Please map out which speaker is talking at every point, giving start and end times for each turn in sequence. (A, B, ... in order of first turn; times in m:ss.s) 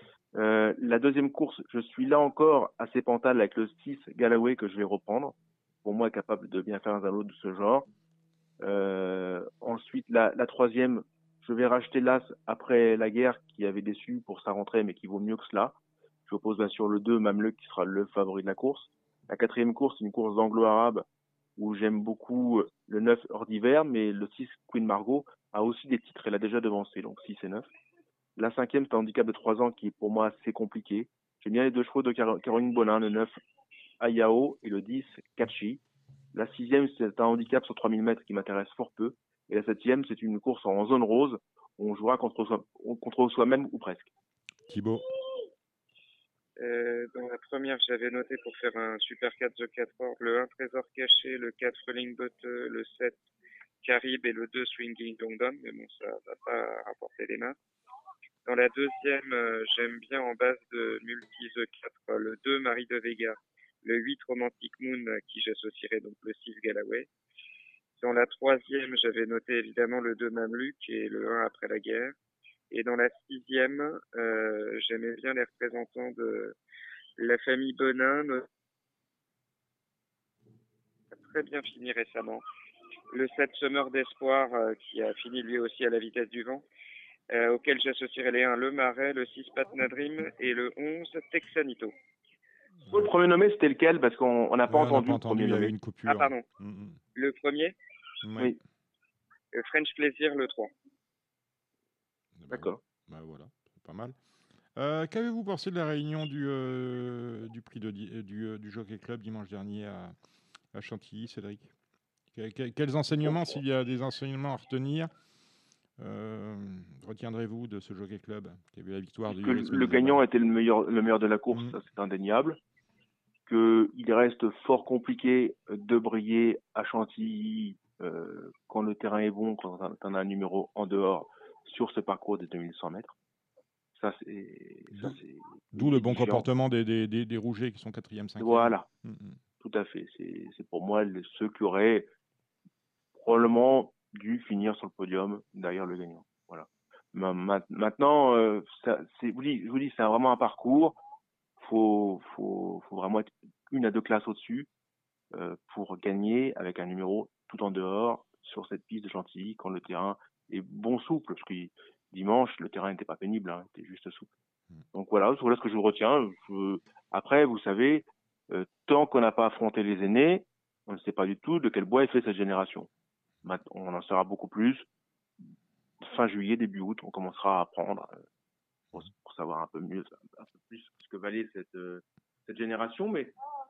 0:00.4-0:07.9 A
0:08.6-0:15.8 A
0:16.3-0:21.0 A
0:21.6-0:27.7 A
0:28.4-0:33.4 A
0:34.0-0:35.8 A
0:36.3-0:44.1 A
0:44.7-0:45.0 B
0:46.6-0:53.2 C
0:53.8-0:57.6 C
0:58.5-1:07.1 C
1:08.0-1:12.1 C
1:12.7-1:16.6 C
1:17.2-1:18.5 C
1:21.2-1:22.4 C
1:23.1-1:26.6 C
1:27.3-1:31.9 C
1:32.9-1:35.7 A
1:34.7-1:37.0 B
1:36.1-1:36.4 C
1:37.2-1:37.8 C
1:38.2-1:38.5 B
1:39.5-1:40.7 C
1:42.4-1:44.2 B
1:42.5-1:42.8 A
1:44.8-1:50.1 B
1:50.7-1:51.7 B
1:52.3-1:55.1 B
1:56.0-2:00.2 B
1:59.3-2:02.6 A
2:03.5-2:13.2 A
2:13.9-2:16.4 A
2:15.7-2:19.4 B
2:18.4-2:18.9 A
2:19.6-2:22.1 A
2:23.2-2:31.0 A
2:31.6-2:34.7 A
2:35.3-2:44.3 A
2:44.9-2:52.9 A
2:53.4-2:54.8 A
2:56.0-2:58.2 A
2:58.9-3:03.3 A